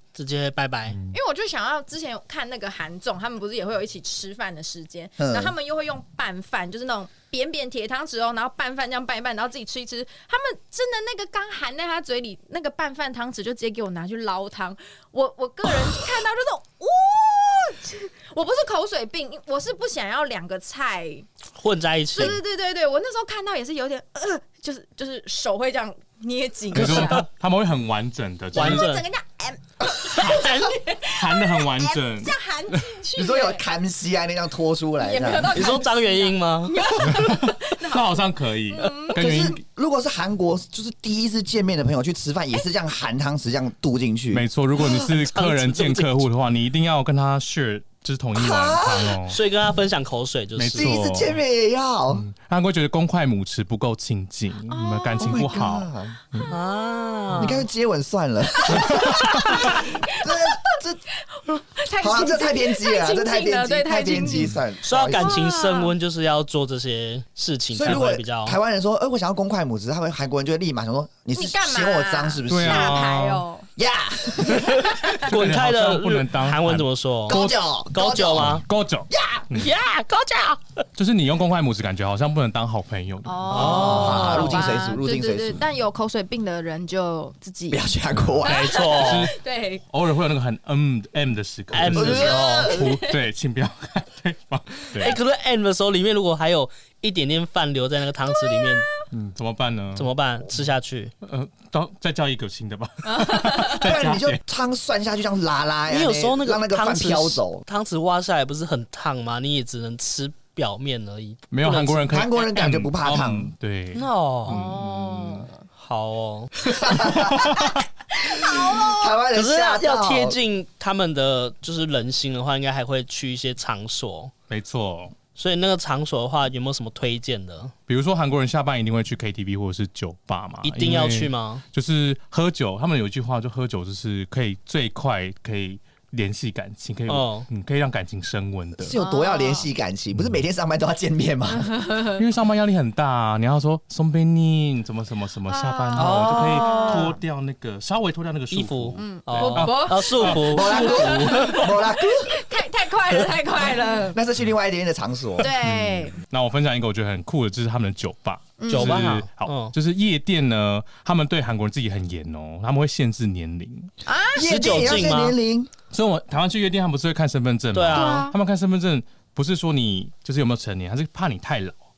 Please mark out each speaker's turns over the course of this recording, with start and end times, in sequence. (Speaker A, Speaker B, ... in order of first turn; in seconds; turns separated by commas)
Speaker A: 0.1-1.0, Speaker B: 0.9-1.2, Speaker C: 1.1-21.3, Speaker D: 5.2-5.5, Speaker A: 21.6-22.4, Speaker C: 22.1-27.3, Speaker A: 26.7-27.3, Speaker B: 26.7-28.9, Speaker A: 28.6-29.1, Speaker C: 28.6-33.6, Speaker B: 30.2-32.9, Speaker A: 30.2-30.7, Speaker D: 33.1-35.8, Speaker C: 35.0-39.2, Speaker A: 35.5-36.9, Speaker B: 37.0-39.6, Speaker D: 39.1-45.1, Speaker B: 44.3-49.4, Speaker A: 45.2-46.1, Speaker D: 48.4-49.2, Speaker A: 49.3-51.0, Speaker B: 50.6-51.4, Speaker D: 50.7-52.2, Speaker B: 52.1-56.5, Speaker C: 54.7-55.7, Speaker D: 55.2-56.2, Speaker C: 56.3-57.3, Speaker A: 56.5-57.6, Speaker D: 57.4-61.0, Speaker C: 58.6-60.8, Speaker C: 61.3-64.6, Speaker D: 62.0-65.5, Speaker A: 64.8-68.6, Speaker C: 65.1-65.9, Speaker D: 67.7-73.1, Speaker C: 71.3-73.7, Speaker B: 72.5-73.5, Speaker D: 73.8-75.2, Speaker A: 74.5-78.6, Speaker B: 75.2-77.6, Speaker D: 77.3-79.5, Speaker B: 78.3-79.7, Speaker A: 79.5-80.8, Speaker B: 81.0-84.3, Speaker C: 83.2-89.8, Speaker A: 83.5-84.6, Speaker D: 83.7-85.6, Speaker D: 87.7-88.8, Speaker B: 88.1-89.4, Speaker A: 88.4-89.3, Speaker B: 89.9-95.2, Speaker A: 91.7-92.8, Speaker D: 91.9-92.8, Speaker C: 92.1-93.2, Speaker A: 95.0-98.9, Speaker C: 98.3-98.7, Speaker B: 99.1-100.7, Speaker A: 100.0-101.1, Speaker B: 101.2-104.4, Speaker C: 103.0-103.8, Speaker D: 103.8-107.7, Speaker A: 105.9-112.1, Speaker B: 111.5-115.5, Speaker D: 112.1-113.5, Speaker A: 113.9-114.6, Speaker C: 114.5-115.6, Speaker A: 115.7-116.5, Speaker D: 116.6-117.7, Speaker B: 117.2-117.8, Speaker C: 118.1-119.2, Speaker D: 118.3-120.4, Speaker A: 119.3-124.3, Speaker B: 124.5-125.2, Speaker A: 125.3-127.7, Speaker B: 127.9-138.9, Speaker A: 130.6-131.6, Speaker A: 137.1-137.5, Speaker D: 138.8-141.7, Speaker C: 139.0-139.7, Speaker B: 140.1-140.4, Speaker C: 141.5-142.2, Speaker B: 142.2-150.8, Speaker C: 145.5-147.2, Speaker A: 145.9-147.1, Speaker A: 148.5-151.6, Speaker C: 149.0-154.2, Speaker D: 150.3-152.4, Speaker D: 153.6-155.5, Speaker C: 155.4-156.2, Speaker B: 155.4-163.9, Speaker C: 158.6-159.1, Speaker A: 158.7-159.7, Speaker C: 164.1-164.7, Speaker D: 164.3-165.7, Speaker A: 164.4-165.4, Speaker B: 165.9-171.8, Speaker A: 167.7-168.3, Speaker C: 167.9-168.4